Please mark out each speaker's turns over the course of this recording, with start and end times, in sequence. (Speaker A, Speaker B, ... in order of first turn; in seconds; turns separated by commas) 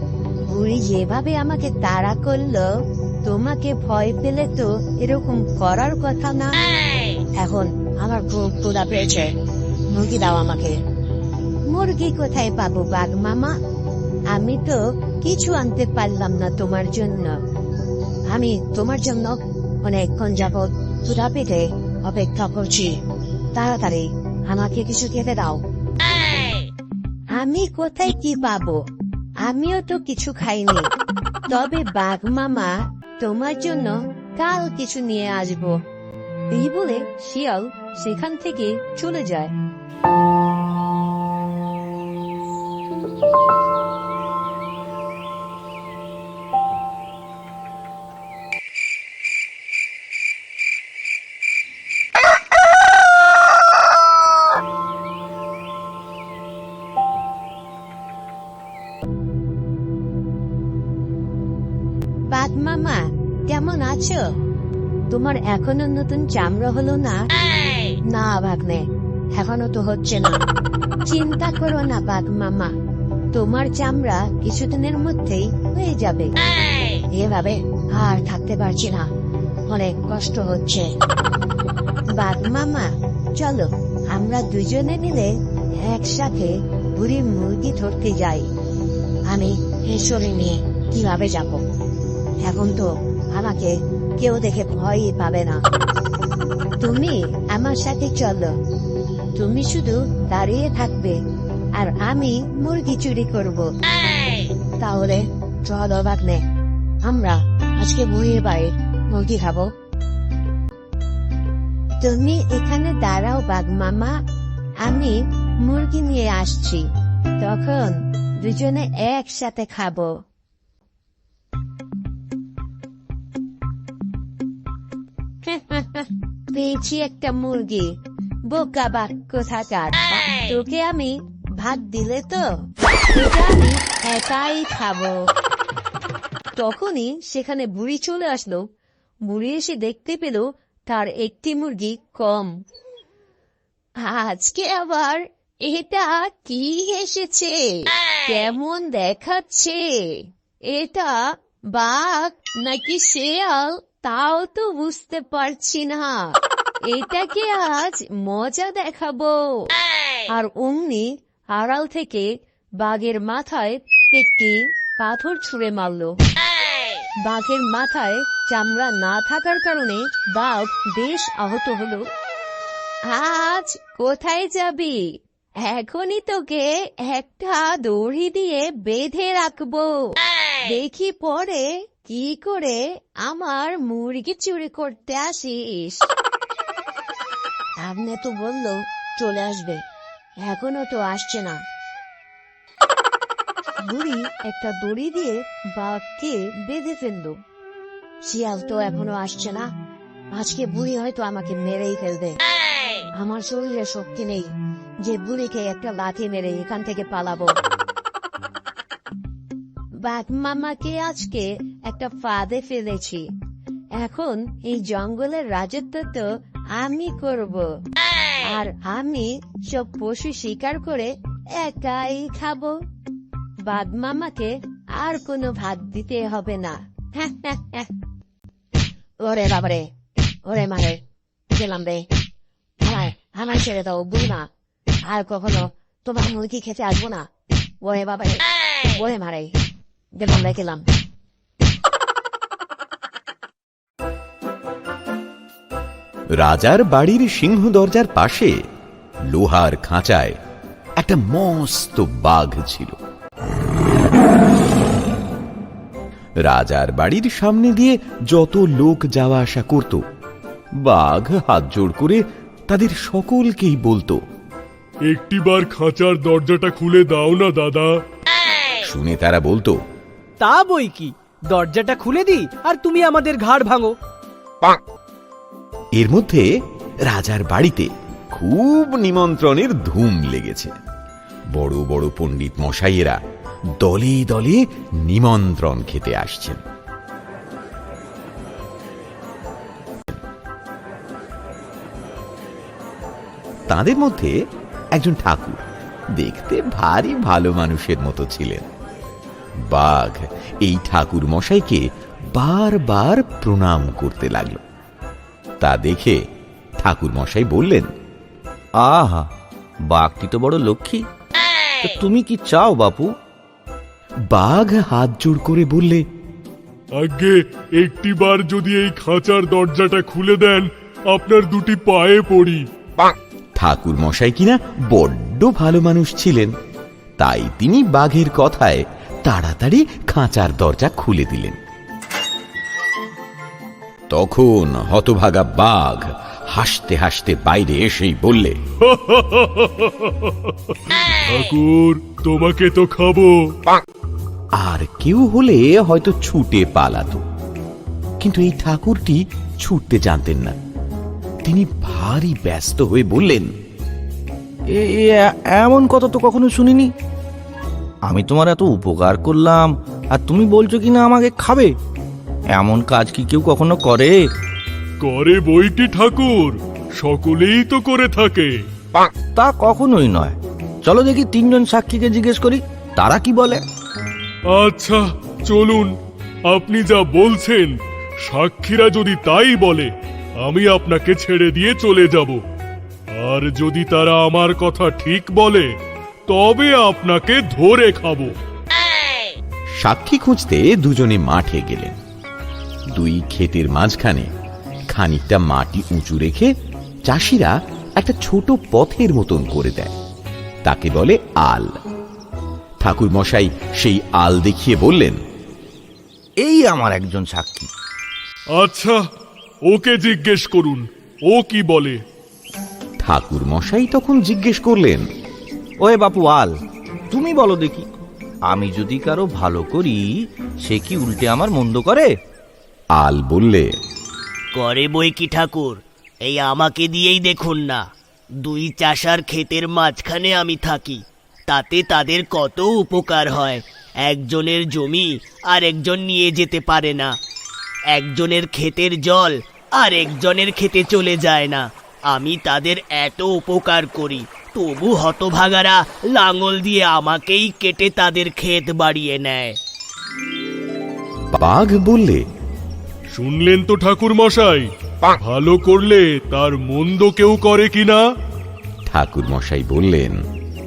Speaker A: 0.4-6.6, Speaker A: 7.3-9.4, Speaker A: 9.9-10.8, Speaker A: 11.7-13.6, Speaker A: 14.3-17.4, Speaker A: 18.3-23.0, Speaker A: 23.5-25.6, Speaker A: 27.3-28.9, Speaker A: 29.4-30.9, Speaker A: 31.5-35.8, Speaker A: 36.5-39.5, Speaker A: 62.3-64.2, Speaker A: 65.1-67.3, Speaker A: 68.0-70.4, Speaker A: 71.0-72.7, Speaker A: 73.3-76.3, Speaker A: 77.1-79.1, Speaker A: 79.7-80.9, Speaker A: 82.1-88.5, Speaker A: 89.3-91.6, Speaker A: 92.4-95.7, Speaker A: 96.8-98.6, Speaker A: 99.3-101.2, Speaker A: 101.8-103.7, Speaker A: 104.8-106.5, Speaker A: 107.0-109.7, Speaker A: 112.0-114.2, Speaker A: 114.8-120.2, Speaker A: 125.5-135.3, Speaker A: 136.6-138.7, Speaker A: 139.3-142.6, Speaker A: 144.0-159.7, Speaker A: 160.3-166.2, Speaker A: 167.2-172.1, Speaker A: 173.1-186.1, Speaker A: 187.8-189.8, Speaker A: 190.4-191.7, Speaker A: 193.8-197.4, Speaker A: 198.2-199.7, Speaker A: 200.3-202.4, Speaker A: 203.1-207.6, Speaker A: 209.9-213.3, Speaker A: 213.9-217.8, Speaker A: 218.4-222.8, Speaker A: 223.6-227.9, Speaker A: 229.2-229.9, Speaker A: 230.5-232.1, Speaker A: 232.8-234.5, Speaker A: 235.0-237.3, Speaker A: 237.8-239.6, Speaker A: 240.2-240.9, Speaker B: 246.3-248.6, Speaker B: 249.3-250.4, Speaker B: 251.0-253.0, Speaker B: 256.4-260.0, Speaker B: 260.8-264.2, Speaker C: 265.1-267.9, Speaker B: 268.8-269.8, Speaker D: 270.4-273.9, Speaker B: 276.0-276.5, Speaker B: 277.1-280.8, Speaker B: 281.5-283.2, Speaker B: 283.8-286.6, Speaker B: 293.7-294.3, Speaker B: 294.9-295.6, Speaker B: 296.1-298.7, Speaker B: 299.6-304.6, Speaker B: 305.6-306.2, Speaker B: 306.8-307.9, Speaker E: 308.8-309.3, Speaker E: 309.9-311.1, Speaker E: 311.8-313.1, Speaker B: 314.3-316.0, Speaker C: 317.0-322.6, Speaker B: 323.6-326.6, Speaker B: 327.2-331.6, Speaker B: 334.1-338.6, Speaker C: 338.8-343.4, Speaker B: 344.6-347.2, Speaker B: 348.2-350.6, Speaker B: 351.4-353.5, Speaker E: 354.7-356.9, Speaker E: 358.1-361.7, Speaker E: 362.5-364.2, Speaker C: 365.0-368.5, Speaker E: 369.4-373.6, Speaker C: 374.5-375.9, Speaker C: 376.5-377.8, Speaker C: 378.3-379.9, Speaker C: 380.4-382.4, Speaker C: 383.2-385.7, Speaker C: 386.3-388.3, Speaker B: 389.8-392.0, Speaker B: 392.9-394.3, Speaker B: 394.9-396.5, Speaker B: 397.1-399.9, Speaker B: 400.6-401.8, Speaker B: 402.8-405.2, Speaker E: 406.4-407.7, Speaker C: 408.6-409.0, Speaker C: 409.7-412.0, Speaker B: 413.0-415.1, Speaker E: 415.8-416.5, Speaker E: 417.1-417.9, Speaker E: 418.5-420.1, Speaker E: 420.6-422.1, Speaker B: 422.9-423.7, Speaker F: 424.6-427.8, Speaker F: 428.4-437.1, Speaker F: 437.9-449.6, Speaker B: 451.3-452.2, Speaker C: 453.1-458.0, Speaker B: 458.9-460.2